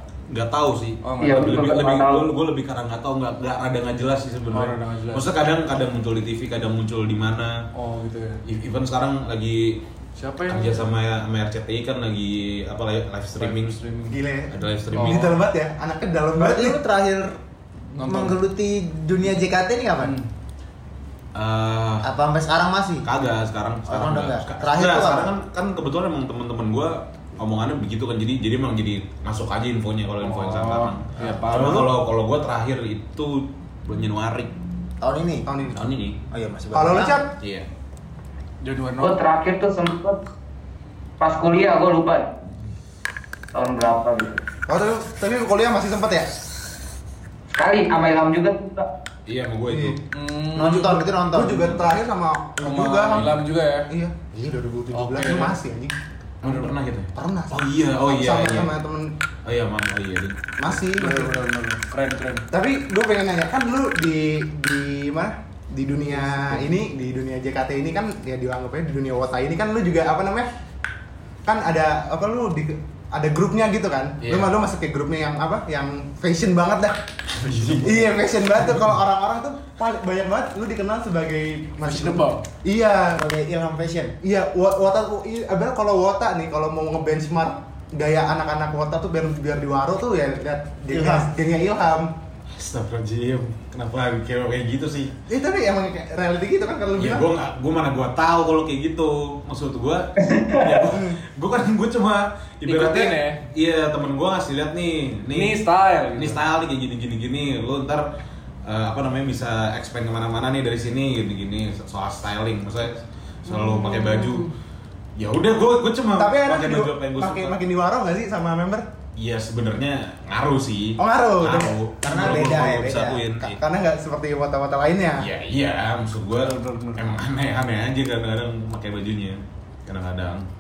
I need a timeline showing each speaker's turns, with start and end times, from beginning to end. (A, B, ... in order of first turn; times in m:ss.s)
0:00.3-0:07.6 A
0:01.0-0:01.8 B
0:01.2-0:02.3 C
0:04.5-0:05.2 B
0:07.8-0:08.4 B
0:08.4-0:09.8 A
0:10.2-0:10.9 B
0:10.5-0:13.8 A
0:13.4-0:14.2 B
0:14.1-0:16.8 D
0:14.5-0:15.4 A
0:14.9-0:15.4 B
0:16.3-0:17.4 E
0:17.9-0:18.4 B
0:18.0-0:20.2 E
0:20.0-0:20.3 B
0:21.4-0:22.1 A
0:22.0-0:23.1 E
0:23.0-0:34.5 A
0:23.9-0:25.3 E
0:30.2-0:31.9 B
0:35.0-0:35.5 E
0:35.5-0:35.8 D
0:35.7-0:36.2 A
0:36.3-0:37.2 E
0:36.7-0:37.3 D
0:37.4-0:37.7 A
0:38.6-0:39.2 B
0:39.0-0:40.2 C
0:41.2-0:42.3 C
0:43.5-0:44.4 C
0:44.7-0:46.4 D
0:47.5-0:48.9 C
0:49.3-0:50.0 A
0:49.7-0:50.0 D
0:50.1-0:51.1 B
0:50.6-0:51.8 E
0:51.3-0:53.4 D
0:52.6-0:53.9 B
0:53.1-0:53.4 A
0:53.9-0:55.9 D
0:54.9-0:55.6 B
0:56.4-0:56.7 B
0:56.4-0:58.7 A
0:57.2-0:59.1 D
0:59.4-1:00.8 A
1:00.6-1:01.3 D
1:01.0-1:02.5 B
1:02.5-1:10.5 D
1:11.4-1:17.0 D
1:14.2-1:14.5 A
1:17.3-1:18.7 A
1:17.7-1:23.2 D
1:21.8-1:22.4 B
1:23.1-1:24.2 E
1:24.2-1:32.1 D
1:30.9-1:31.3 E
1:32.5-1:35.2 A
1:35.3-1:37.3 D
1:37.0-1:45.6 A
1:40.2-1:40.9 C
1:42.7-1:43.4 B
1:45.3-1:46.4 B
1:46.2-1:48.1 A
1:48.7-1:54.5 A
1:53.5-1:54.5 B
1:55.2-1:57.6 A
1:56.2-1:58.8 D
1:59.2-2:03.6 A
2:01.0-2:02.5 D
2:02.0-2:03.3 E
2:03.5-2:05.3 D
2:05.2-2:10.5 A
2:06.3-2:07.1 B